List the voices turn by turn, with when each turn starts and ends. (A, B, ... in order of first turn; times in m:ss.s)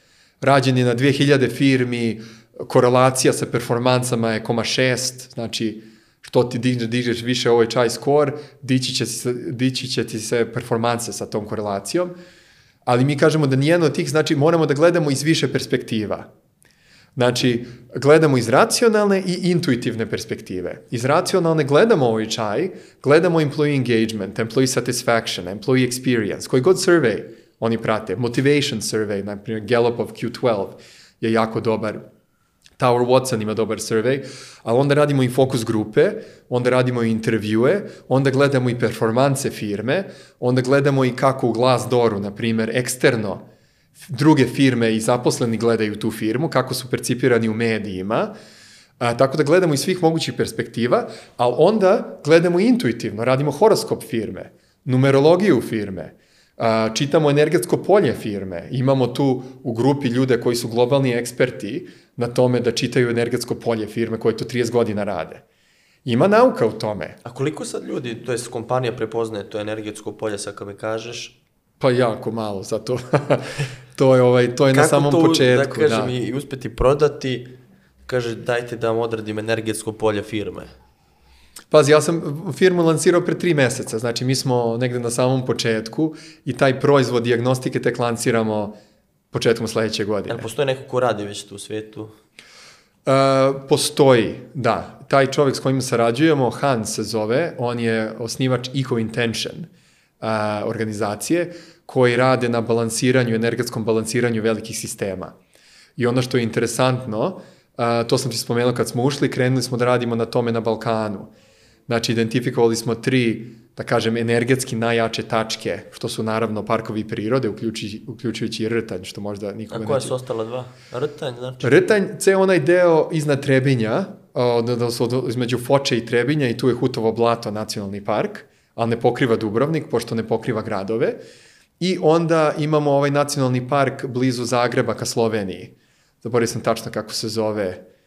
0:00.4-0:12.1 A
0:12.9-0:16.3 A
0:17.2-0:32.0 A
0:32.8-0:43.4 A
0:44.0-0:48.3 A
0:49.0-1:05.4 A
1:06.0-1:07.2 A
1:07.2-1:11.4 B
1:11.8-1:16.1 A
1:14.7-1:17.6 B
1:18.1-1:20.7 B
1:21.7-1:28.8 A
1:29.3-1:30.5 A
1:30.3-1:32.1 B
1:33.1-1:45.4 A
1:46.0-1:51.3 A
1:51.9-2:00.2 A
1:59.7-2:01.8 B
2:01.6-2:11.2 A
2:11.8-2:17.8 A